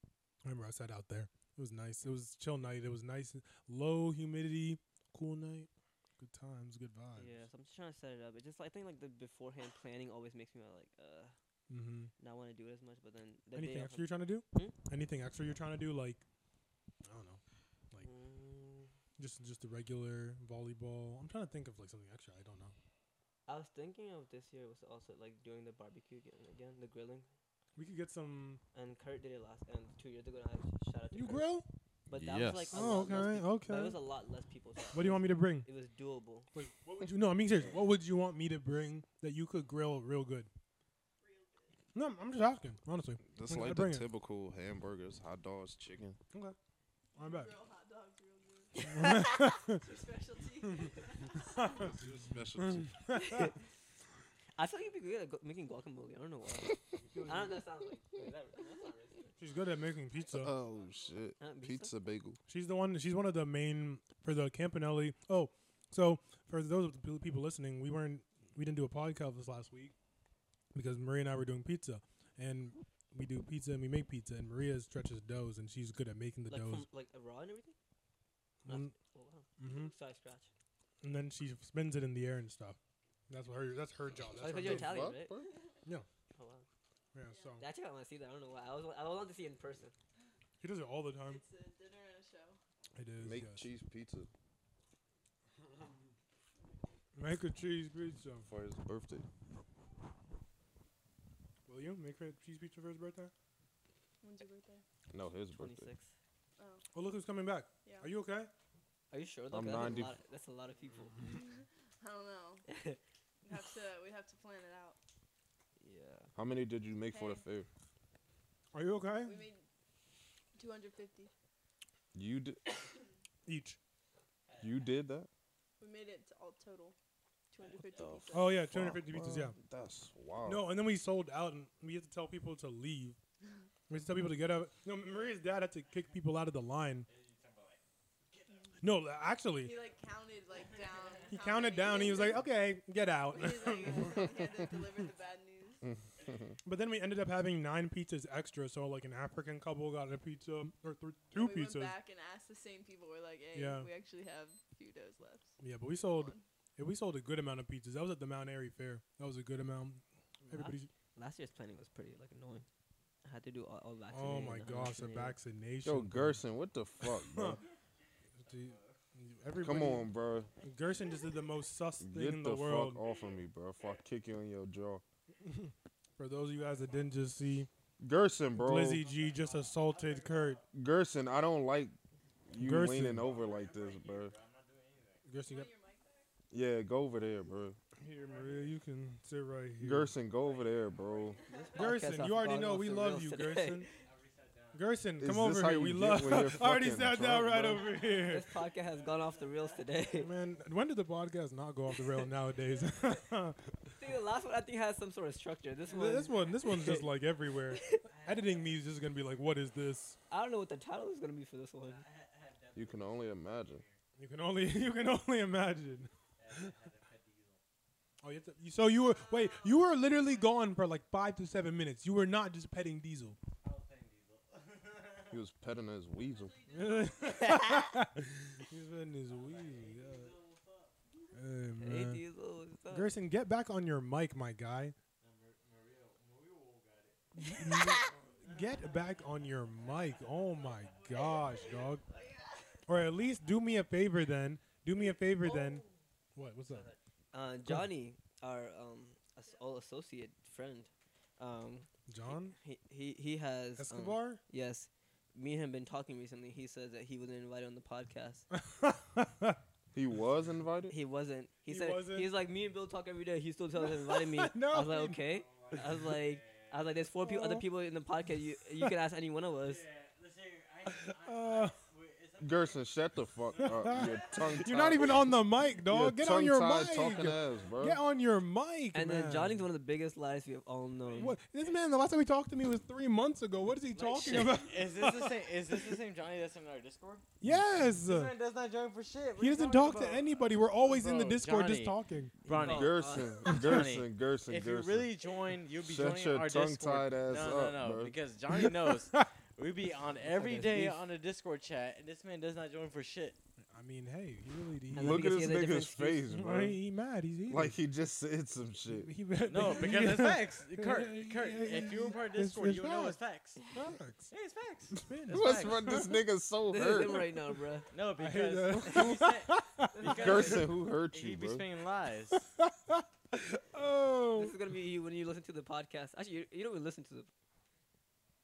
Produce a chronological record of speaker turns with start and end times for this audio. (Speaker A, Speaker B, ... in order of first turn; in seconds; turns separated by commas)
Speaker A: 0.4-7.5, Speaker B: 7.2-11.3, Speaker A: 11.7-12.1, Speaker B: 12.2-14.8, Speaker A: 13.5-16.2, Speaker A: 17.0-18.1, Speaker B: 18.0-18.9, Speaker A: 19.2-22.7, Speaker B: 23.5-27.3, Speaker A: 27.8-28.6, Speaker B: 28.7-31.5, Speaker A: 31.1-31.7, Speaker C: 32.1-33.3, Speaker B: 32.1-36.5, Speaker A: 32.7-34.0, Speaker A: 34.9-35.7, Speaker A: 36.5-40.5, Speaker D: 41.2-41.8, Speaker A: 41.9-44.0, Speaker C: 43.2-46.2, Speaker D: 47.1-51.9, Speaker A: 47.2-47.5, Speaker A: 48.8-49.8, Speaker B: 48.9-49.6, Speaker A: 51.6-51.9, Speaker C: 51.9-52.9, Speaker A: 52.6-53.5, Speaker B: 53.1-53.6, Speaker B: 54.5-59.4, Speaker A: 57.1-57.6, Speaker A: 59.4-60.5, Speaker D: 60.1-61.3, Speaker C: 60.3-62.4, Speaker B: 61.4-61.9, Speaker A: 62.5-69.9, Speaker A: 70.7-76.9, Speaker B: 76.5-77.8, Speaker A: 78.6-78.9, Speaker B: 78.6-80.5, Speaker A: 79.6-79.9, Speaker A: 81.0-85.1, Speaker C: 84.4-85.5, Speaker B: 84.4-85.5, Speaker B: 86.3-86.6, Speaker A: 87.1-87.6, Speaker D: 87.3-87.6, Speaker B: 87.6-89.9, Speaker A: 90.6-91.4, Speaker D: 91.2-92.6, Speaker A: 93.0-93.7, Speaker C: 93.2-94.3, Speaker A: 97.2-98.5, Speaker C: 98.4-99.2, Speaker A: 101.7-103.3, Speaker D: 104.2-104.8, Speaker C: 105.1-105.9, Speaker B: 105.5-106.1, Speaker D: 106.6-106.8, Speaker A: 106.9-108.5, Speaker D: 107.8-108.1, Speaker B: 109.1-111.3, Speaker C: 109.5-110.1, Speaker D: 111.2-112.7, Speaker B: 112.7-113.0, Speaker D: 113.4-115.0, Speaker B: 115.8-116.3, Speaker C: 116.3-117.7, Speaker D: 117.0-117.4, Speaker A: 118.7-119.4, Speaker D: 119.2-119.7, Speaker D: 120.5-121.3, Speaker C: 122.1-122.6, Speaker A: 123.5-123.8, Speaker C: 124.6-125.3, Speaker D: 125.8-127.0, Speaker D: 127.5-128.7, Speaker C: 128.0-130.7, Speaker A: 128.3-129.6, Speaker A: 130.4-133.2, Speaker A: 133.9-137.1, Speaker E: 135.0-135.3, Speaker E: 137.1-138.7, Speaker A: 138.8-139.8, Speaker D: 139.6-142.5, Speaker E: 140.5-142.0, Speaker A: 141.3-144.5, Speaker D: 143.2-145.9, Speaker C: 145.8-146.5, Speaker E: 146.2-146.5, Speaker A: 146.6-151.9, Speaker D: 151.3-156.4, Speaker A: 153.5-153.9, Speaker A: 155.6-160.9, Speaker B: 160.5-162.7, Speaker B: 163.2-165.4, Speaker A: 164.1-166.4, Speaker C: 165.8-167.6, Speaker A: 167.0-167.6, Speaker E: 168.4-169.0, Speaker A: 168.4-170.1, Speaker C: 169.6-170.5, Speaker E: 170.4-170.9, Speaker A: 170.6-173.0, Speaker C: 172.0-175.0, Speaker E: 173.0-174.0, Speaker A: 175.4-177.7, Speaker E: 176.5-177.4, Speaker C: 178.0-179.1, Speaker A: 178.6-180.6, Speaker E: 178.8-180.6, Speaker C: 180.7-181.9, Speaker C: 182.5-184.3, Speaker A: 182.6-183.3, Speaker E: 182.9-185.2, Speaker A: 185.2-185.7, Speaker D: 185.4-186.3, Speaker C: 186.5-187.8, Speaker A: 188.0-190.1, Speaker E: 188.1-188.8, Speaker C: 189.8-191.4, Speaker E: 190.3-192.2, Speaker B: 191.5-193.9, Speaker A: 191.7-193.9, Speaker E: 193.8-194.8, Speaker A: 194.7-198.5, Speaker C: 195.2-197.8, Speaker E: 197.6-200.3, Speaker B: 198.1-200.3, Speaker A: 200.2-203.9, Speaker E: 202.7-202.9, Speaker B: 203.9-207.1, Speaker A: 205.9-210.2, Speaker B: 207.7-208.1, Speaker E: 208.1-208.8, Speaker B: 210.3-212.1, Speaker E: 211.8-214.0, Speaker C: 212.7-213.8, Speaker A: 214.2-216.1, Speaker E: 216.4-217.6, Speaker A: 218.2-223.4, Speaker E: 219.3-220.5, Speaker E: 223.6-225.4, Speaker C: 225.3-226.6, Speaker E: 226.2-227.5, Speaker A: 226.7-230.3, Speaker B: 227.4-227.9, Speaker E: 229.3-231.3, Speaker A: 231.3-232.2, Speaker B: 231.8-233.1, Speaker A: 232.9-234.9, Speaker E: 235.2-237.3, Speaker A: 237.3-242.0, Speaker B: 237.4-238.1, Speaker E: 237.9-241.3, Speaker D: 241.0-242.8, Speaker A: 242.9-246.9, Speaker B: 245.3-245.7, Speaker B: 246.7-258.4, Speaker A: 252.1-252.6, Speaker A: 253.8-254.4, Speaker A: 258.5-259.6, Speaker C: 259.9-260.9, Speaker B: 260.9-269.8, Speaker A: 261.7-262.3, Speaker A: 263.8-265.2, Speaker E: 265.2-267.0, Speaker A: 267.2-267.6, Speaker E: 269.6-275.0, Speaker A: 270.9-271.7, Speaker C: 272.4-275.3, Speaker A: 273.6-279.7, Speaker C: 275.9-278.0, Speaker E: 276.9-278.2, Speaker B: 278.9-281.4, Speaker E: 281.0-281.7, Speaker A: 281.1-285.9, Speaker B: 283.9-284.7, Speaker E: 284.3-287.2, Speaker A: 287.4-288.3, Speaker E: 288.1-303.4, Speaker A: 289.4-292.3, Speaker B: 292.4-293.5, Speaker C: 292.6-295.1, Speaker A: 293.4-293.7, Speaker C: 295.8-298.1, Speaker B: 300.2-301.0, Speaker A: 303.7-305.4, Speaker B: 304.9-306.2, Speaker C: 304.9-306.8, Speaker A: 306.3-307.8, Speaker C: 307.5-309.1, Speaker A: 308.9-313.2, Speaker E: 309.5-313.6, Speaker A: 313.7-314.3, Speaker E: 314.3-315.8, Speaker A: 314.9-316.1, Speaker C: 315.3-317.3, Speaker B: 316.7-317.9, Speaker E: 317.9-322.4, Speaker A: 318.2-320.0, Speaker B: 319.9-320.7, Speaker C: 320.0-321.6, Speaker A: 322.5-324.6, Speaker B: 324.4-327.3